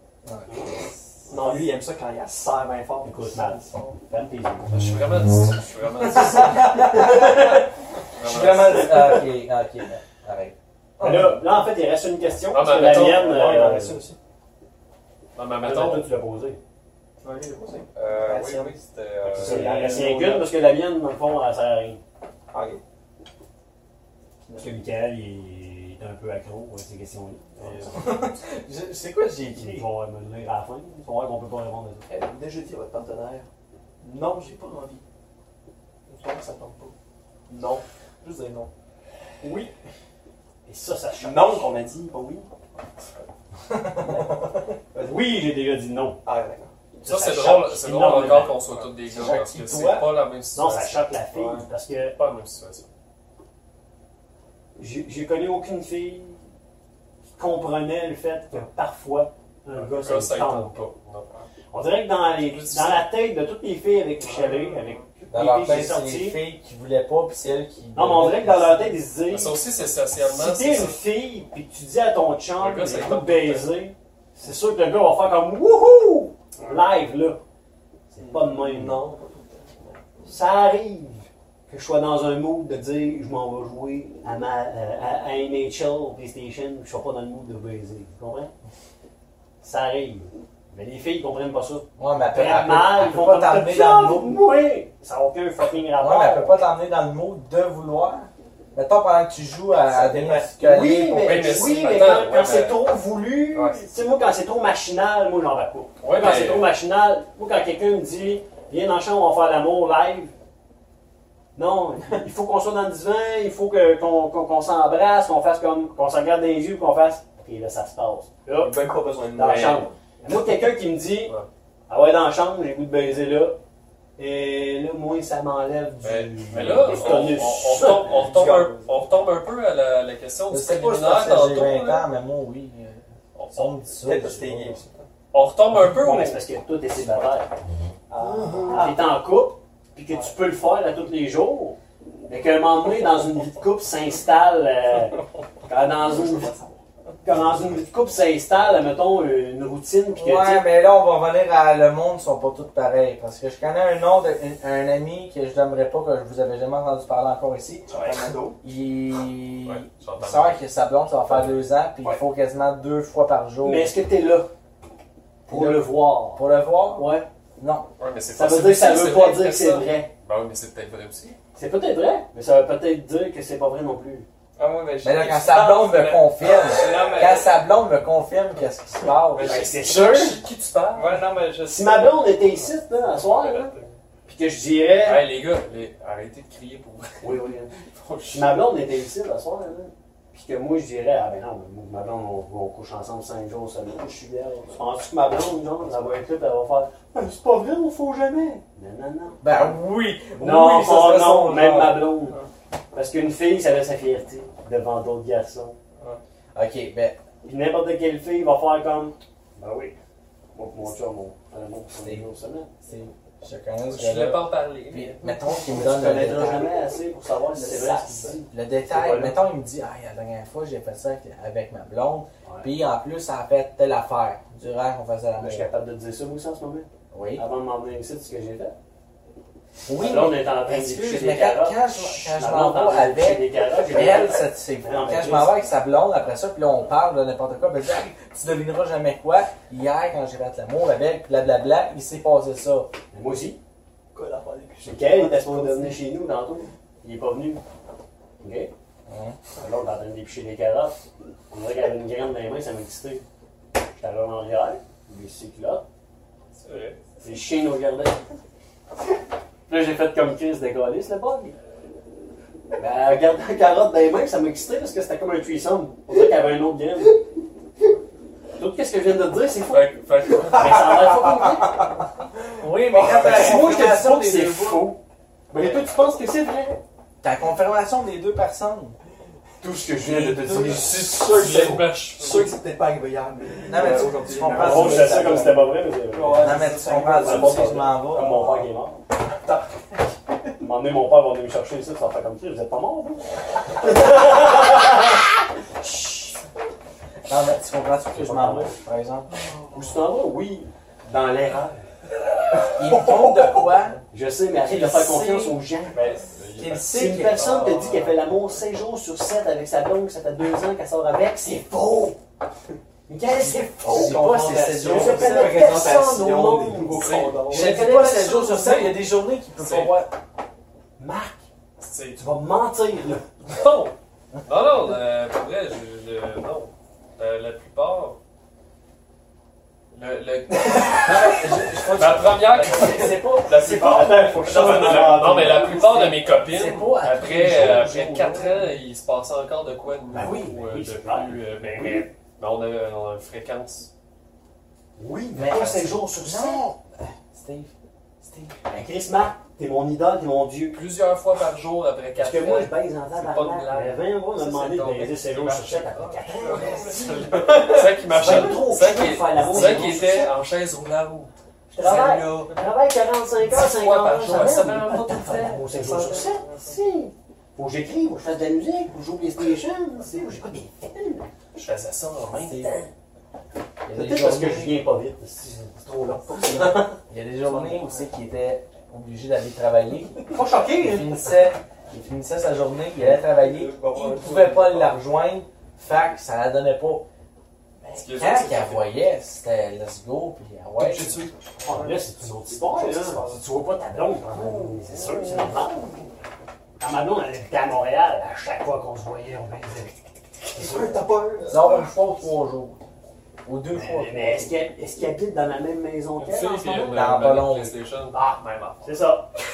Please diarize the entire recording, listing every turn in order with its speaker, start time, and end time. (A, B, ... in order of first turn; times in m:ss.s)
0:00.2-0:00.9 A
0:00.5-0:01.6 B
0:01.3-0:04.0 C
0:03.0-0:04.8 B
0:04.7-0:06.8 D
0:06.1-0:07.6 B
0:06.2-0:07.6 A
0:08.2-0:09.2 D
0:08.2-0:11.4 A
0:11.0-0:14.0 B
0:12.5-0:13.4 D
0:12.8-0:14.2 C
0:15.4-0:16.1 D
0:15.6-0:16.6 B
0:17.2-0:18.7 C
0:17.9-0:19.8 E
0:19.2-0:22.0 B
0:19.3-0:20.5 C
0:22.5-0:22.8 C
0:24.4-0:24.8 C
0:24.6-0:28.3 B
0:27.6-0:28.0 C
0:27.9-0:29.8 A
0:29.6-0:32.1 B
0:32.1-0:33.5 C
0:34.0-0:35.0 C
0:36.1-0:37.0 C
0:37.5-0:38.7 C
0:39.4-0:39.7 C
0:40.7-0:41.8 B
0:41.2-0:42.5 C
0:44.0-0:45.1 C
0:45.0-0:46.2 B
0:46.2-0:46.7 C
0:47.0-0:48.7 B
0:47.0-0:51.1 D
0:49.1-0:50.2 A
0:50.5-0:52.2 B
0:51.3-0:51.7 C
0:52.2-0:52.9 D
0:54.8-0:56.4 B
0:57.4-1:00.9 B
0:59.7-1:01.3 D
1:01.7-1:06.4 B
1:02.3-1:03.1 D
1:05.3-1:08.9 A
1:08.0-1:09.6 B
1:09.3-1:11.0 D
1:10.2-1:17.4 B
1:12.6-1:13.8 D
1:18.1-1:19.0 B
1:18.2-1:20.1 C
1:20.2-1:28.5 B
1:29.6-1:36.6 B
1:32.0-1:34.5 A
1:36.0-1:41.5 A
1:39.8-1:40.4 C
1:40.5-1:50.3 B
1:41.2-1:42.9 D
1:46.0-1:46.7 D
1:51.6-1:58.8 B
1:58.5-1:59.9 C
1:59.3-2:01.4 B
1:59.5-1:59.8 D
2:01.9-2:03.6 B
2:04.2-2:08.5 B
2:06.0-2:12.1 D
2:07.0-2:07.3 C
2:08.1-2:09.1 C
2:10.5-2:14.8 A
2:13.4-2:13.8 D
2:14.0-2:14.9 C
2:15.3-2:16.4 D
2:15.8-2:17.5 B
2:18.1-2:19.0 C
2:18.6-2:26.5 B
2:26.0-2:26.8 C
2:27.2-2:30.7 B
2:30.2-2:37.9 A
2:37.9-2:38.6 C
2:38.6-2:44.0 A
2:39.6-2:40.6 D
2:43.6-2:44.5 B
2:45.5-2:47.3 B
2:45.5-2:47.9 A
2:48.0-2:51.4 D
2:48.3-2:50.1 B
2:51.6-2:54.3 B
2:54.6-2:57.6 E
2:55.0-2:59.7 A
2:59.4-3:00.4 B
2:59.4-3:01.2 D
3:00.9-3:02.4 E
3:01.6-3:03.8 B
3:03.2-3:03.9 D
3:04.3-3:05.3 B
3:05.0-3:08.7 D
3:07.2-3:07.7 B
3:08.3-3:19.7 B
3:19.4-3:22.1 A
3:20.4-3:22.4 B
3:22.9-3:25.8 B
3:26.5-3:27.2 A
3:27.4-3:30.0 B
3:30.5-3:32.7 B
3:32.0-3:32.2 A
3:32.8-3:36.7 A
3:33.8-3:35.3 D
3:35.7-3:36.8 C
3:35.7-3:39.5 B
3:37.4-3:38.4 C
3:38.5-3:45.7 A
3:42.4-3:42.7 B
3:45.4-3:48.8 B
3:47.1-3:47.4 A
3:49.9-4:02.9 A
3:49.9-3:55.6 B
4:03.1-4:03.6 B
4:04.1-4:06.0 C
4:04.8-4:07.6 B
4:08.4-4:08.7 B
4:09.1-4:09.4 A
4:09.6-4:13.2 B
4:14.0-4:15.8 B
4:16.6-4:17.0 D
4:17.2-4:18.3 B
4:19.7-4:21.6 B
4:22.8-4:27.2 B
4:28.6-4:31.9 B
4:29.7-4:31.0 D
4:32.6-4:34.9 A
4:32.9-4:33.8 C
4:33.1-4:35.0 B
4:35.5-4:36.8 B
4:37.2-4:39.0 A
4:39.6-4:48.7 C
4:40.0-4:41.0 B
4:40.1-4:40.8 A
4:41.2-4:42.6 D
4:43.7-4:45.5 A
4:44.5-4:49.0 B
4:46.3-4:48.4 A
4:49.4-4:49.7 C
4:50.6-4:55.2 B
4:55.8-4:56.4 B
4:57.3-4:59.3 A
4:58.1-4:58.8 B
4:59.7-5:01.9 B
5:02.7-5:04.0 A
5:04.1-5:06.1 B
5:04.6-5:05.6 A
5:06.0-5:06.8 D
5:06.1-5:06.7 C
5:06.6-5:07.5 A
5:06.8-5:12.2 B
5:07.2-5:08.0 C
5:13.1-5:19.0 B
5:13.5-5:15.9 A
5:13.8-5:17.9 C
5:17.0-5:17.8 D
5:17.5-5:20.1 A
5:19.6-5:20.0 D
5:21.0-5:21.4 B
5:21.8-5:22.2 D
5:22.2-5:23.3 B
5:23.5-5:24.0 D
5:24.5-5:28.2 D
5:29.9-5:43.9 D
5:31.1-5:34.1 A
5:31.3-5:32.0 B
5:32.7-5:36.2 B
5:33.5-5:35.4 C
5:35.8-5:38.7 A
5:40.1-5:42.1 B
5:45.0-5:46.7 B
5:45.4-5:48.6 A
5:48.7-5:50.8 B
5:50.7-6:02.6 D
5:52.2-6:00.3 B
5:59.5-6:00.0 C
6:01.7-6:11.3 B
6:03.5-6:06.4 D
6:11.6-6:12.8 D
6:12.4-6:12.7 A
6:12.6-6:12.9 B
6:13.8-6:14.8 A
6:13.9-6:17.0 B
6:16.1-6:16.9 C
6:17.1-6:27.1 A
6:20.3-6:21.1 B
6:23.4-6:25.0 C
6:27.9-6:31.2 A
6:27.9-6:29.0 D
6:30.8-6:31.5 D
6:31.6-6:35.9 B
6:32.5-6:33.4 C
6:34.4-6:36.0 C
6:36.8-6:41.1 B
6:40.5-6:41.9 C
6:41.5-6:42.8 A
6:43.4-6:44.6 A
6:43.7-6:47.1 B
6:46.2-6:49.0 D
6:46.9-6:47.8 A
6:48.1-6:49.3 B